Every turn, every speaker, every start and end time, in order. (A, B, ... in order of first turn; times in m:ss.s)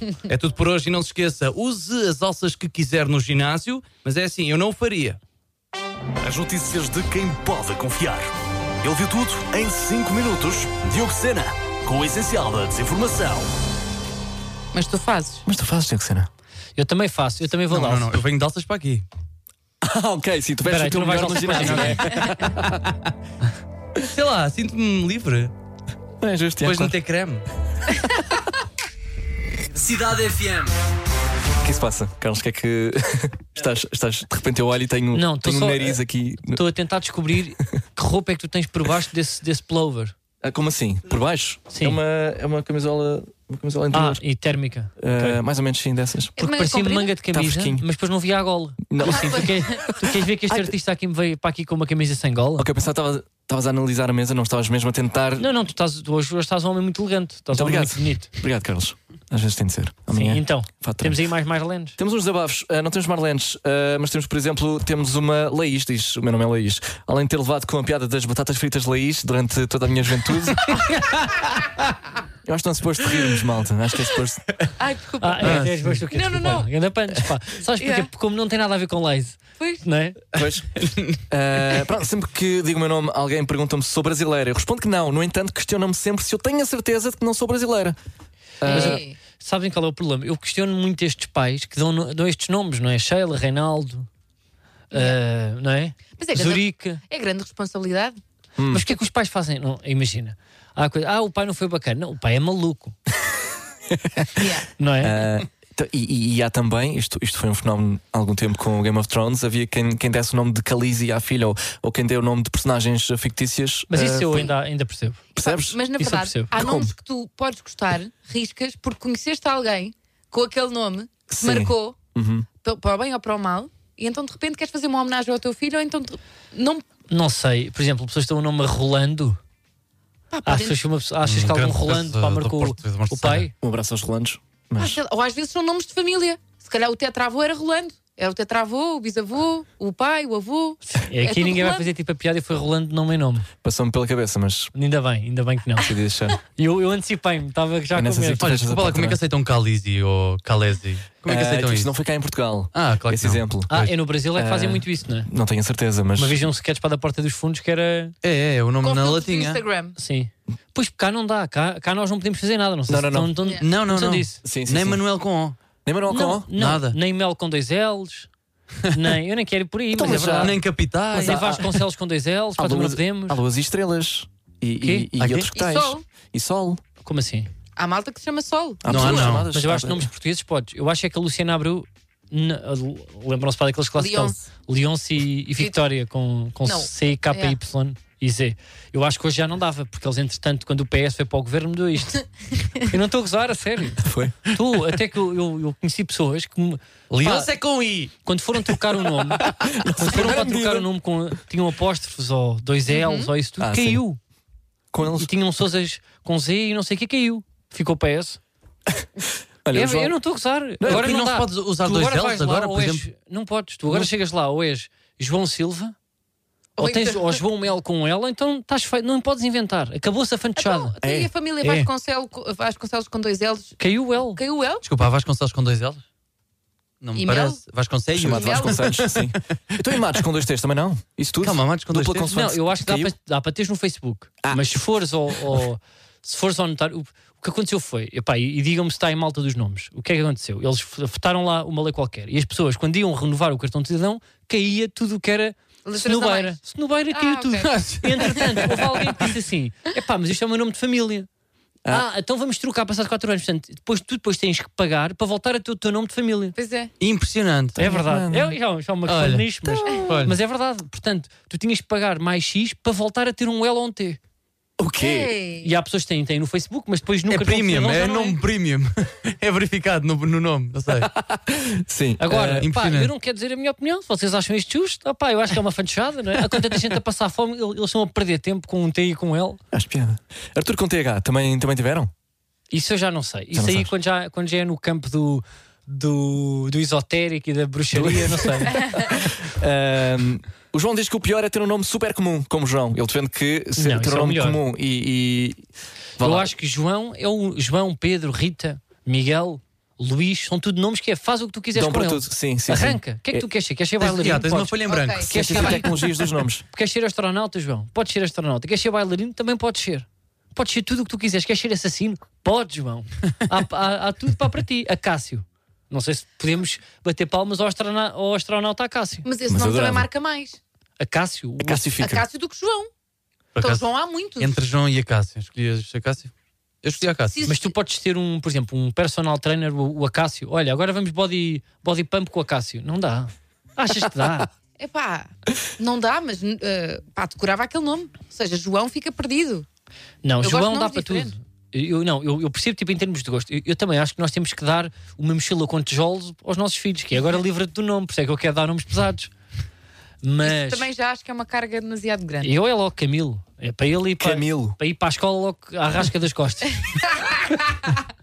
0:00.2-0:05.2 A
0:06.2-0:08.3 B
0:08.8-0:13.5 B
0:14.7-0:15.4 C
0:15.5-0:16.3 D
0:16.8-0:18.2 E
0:17.7-0:19.1 A
0:19.8-0:22.5 D
0:20.7-0:22.4 E
0:22.2-0:22.9 A
0:24.0-0:25.5 A
0:26.2-0:27.0 D
0:26.6-0:27.4 A
0:29.7-0:30.7 B
0:31.6-0:36.6 D
0:35.1-0:40.1 E
0:40.4-0:44.2 D
0:41.7-0:42.0 E
0:43.9-0:45.4 E
0:45.0-0:46.4 D
0:46.4-0:47.2 C
0:46.4-0:52.7 E
0:47.3-0:47.8 D
0:48.9-0:49.8 D
0:49.1-0:49.9 C
0:52.6-0:55.5 D
0:55.4-0:58.3 E
0:57.5-1:01.2 D
1:00.1-1:02.0 E
1:02.0-1:10.8 D
1:12.4-1:14.5 D
1:14.8-1:16.7 C
1:15.2-1:20.2 E
1:17.8-1:18.1 C
1:20.3-1:28.0 D
1:20.9-1:21.2 A
1:28.6-1:29.0 D
1:28.6-1:29.2 C
1:28.7-1:34.1 E
1:34.9-1:37.0 E
1:34.9-1:35.2 C
1:36.2-1:38.2 C
1:38.6-1:38.9 D
1:38.7-1:43.0 E
1:43.9-1:44.4 D
1:44.4-1:44.7 C
1:44.8-1:45.2 E
1:45.0-1:54.6 D
1:53.9-1:55.2 E
1:55.4-1:55.9 D
1:55.4-2:02.0 C
1:56.0-1:56.5 E
1:56.5-1:56.9 D
2:01.3-2:02.5 D
2:02.6-2:06.8 C
2:07.1-2:09.4 E
2:10.3-2:10.8 C
2:10.5-2:13.5 E
2:11.2-2:13.5 A
2:13.6-2:15.0 D
2:14.8-2:21.9 C
2:21.0-2:23.5 E
2:23.6-2:24.7 D
2:24.7-2:25.9 E
2:25.8-2:26.4 D
2:26.6-2:28.5 E
2:27.9-2:29.2 D
2:28.4-2:31.9 A
2:31.2-2:36.4 D
2:32.7-2:33.9 A
2:33.7-2:35.3 E
2:36.2-2:38.2 E
2:38.2-2:39.6 A
2:38.8-2:40.0 C
2:40.0-2:44.4 E
2:42.9-2:43.4 D
2:43.6-2:45.6 A
2:44.4-2:45.0 D
2:45.8-2:46.5 D
2:46.1-2:48.3 E
2:46.6-2:47.0 A
2:48.9-2:50.6 E
2:49.9-2:50.6 D
2:50.0-2:51.8 A
2:51.1-2:51.8 D
2:51.1-2:53.4 E
2:52.6-2:56.8 D
2:54.8-2:55.1 E
2:55.2-2:55.5 A
2:55.5-2:56.0 C
2:57.0-2:57.5 E
2:57.8-2:59.4 C
2:58.8-3:00.1 D
2:58.9-2:59.5 A
2:59.5-3:17.5 E
3:04.0-3:04.5 C
3:05.6-3:05.8 C
3:06.6-3:07.6 C
3:14.0-3:14.5 D
3:17.1-3:18.1 A
3:18.2-3:24.2 E
3:19.5-3:20.9 D
3:22.9-3:23.3 C
3:23.6-3:24.0 D
3:24.9-3:25.3 D
3:25.1-3:28.4 E
3:29.6-3:30.2 D
3:29.7-3:36.0 E
3:30.8-3:31.1 D
3:30.9-3:33.1 A
3:36.8-3:37.4 C
3:36.8-3:40.9 E
3:40.6-3:44.8 C
3:41.0-3:41.3 D
3:41.6-3:41.9 E
3:43.8-3:44.4 E
3:44.8-3:46.0 A
3:47.0-3:49.4 A
3:47.2-3:47.6 C
3:48.2-3:53.1 D
3:48.2-3:48.9 C
3:51.4-3:52.3 A
3:52.3-4:11.3 E
3:54.4-3:54.8 D
4:05.8-4:06.6 C
4:07.1-4:07.7 C
4:07.6-4:08.5 A
4:11.9-4:16.6 E
4:16.6-4:16.9 C
4:17.0-4:17.8 A
4:17.8-4:18.6 D
4:17.8-4:24.2 E
4:19.1-4:20.4 A
4:24.8-4:25.4 D
4:25.0-4:25.7 C
4:25.6-4:28.4 E
4:27.3-4:31.1 A
4:31.3-4:32.7 D
4:32.2-4:39.6 E
4:32.6-4:33.1 A
4:39.7-4:42.1 D
4:42.7-4:48.8 E
4:43.5-4:43.9 D
4:47.9-4:55.7 D
4:53.8-4:54.6 E
4:56.2-4:56.5 D
4:56.2-5:04.8 E
5:01.7-5:03.5 D
5:04.0-5:05.8 A
5:04.9-5:05.9 C
5:05.3-5:06.6 D
5:06.7-5:19.2 E
5:19.2-5:20.6 C
5:19.5-5:20.1 D
5:21.0-5:21.9 E
5:21.6-5:22.2 D
5:22.0-5:22.9 C
5:23.6-5:23.9 A
5:23.6-5:24.6 C
5:24.4-5:26.3 A
5:26.8-5:27.4 A
5:27.3-5:27.7 C
5:27.5-5:34.5 E
5:34.8-5:39.7 C
5:40.2-5:49.3 E
5:40.4-5:41.3 C
5:50.2-5:50.9 E
5:50.4-5:52.6 C
5:52.4-5:56.8 E
5:54.2-5:54.8 D